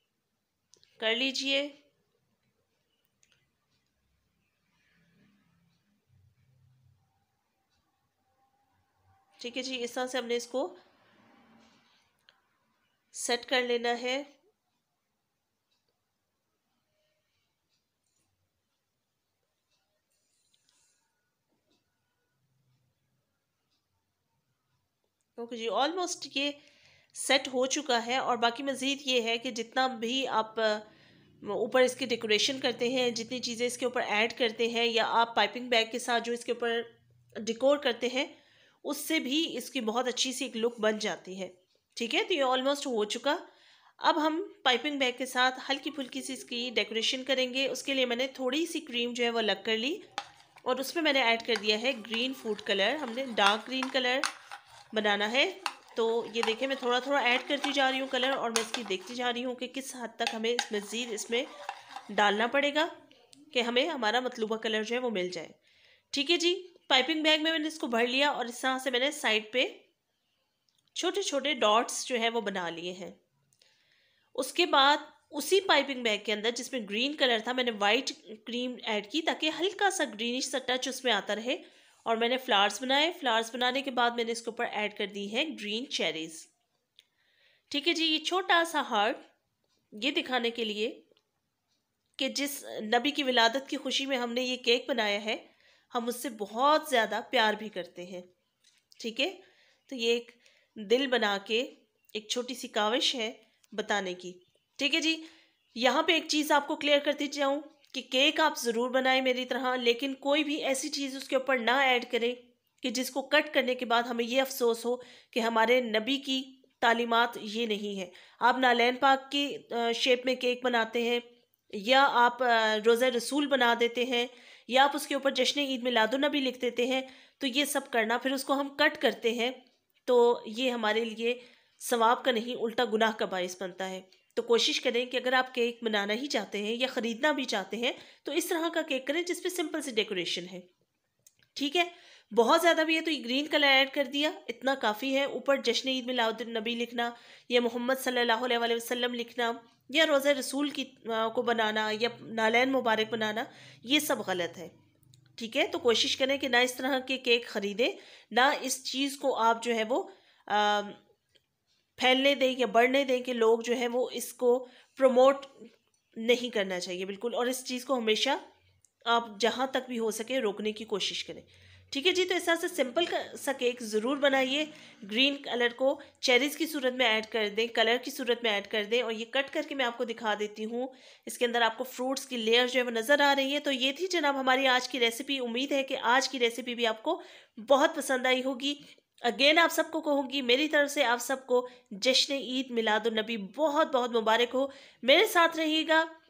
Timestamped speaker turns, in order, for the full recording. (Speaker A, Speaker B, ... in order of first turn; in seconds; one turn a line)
Speaker A: 1.0-1.7
Speaker A: 9.4-10.8
Speaker A: 13.1-14.3
Speaker A: 25.4-26.6
Speaker A: 27.1-30.9
Speaker A: 31.4-38.3
Speaker A: 38.8-43.4
Speaker A: 44.0-50.0
Speaker A: 50.6-54.3
Speaker A: 54.9-61.5
Speaker A: 62.1-62.9
Speaker A: 63.5-65.6
Speaker A: 66.1-69.8
Speaker A: 71.0-73.2
Speaker A: 74.4-86.5
Speaker A: 87.7-89.2
Speaker A: 89.9-91.0
Speaker A: 92.2-95.4
Speaker A: 95.9-98.3
Speaker A: 99.0-105.2
Speaker A: 105.8-140.6
Speaker A: 141.6-154.7
Speaker A: 155.4-161.0
Speaker A: 162.0-168.4
Speaker A: 169.1-196.1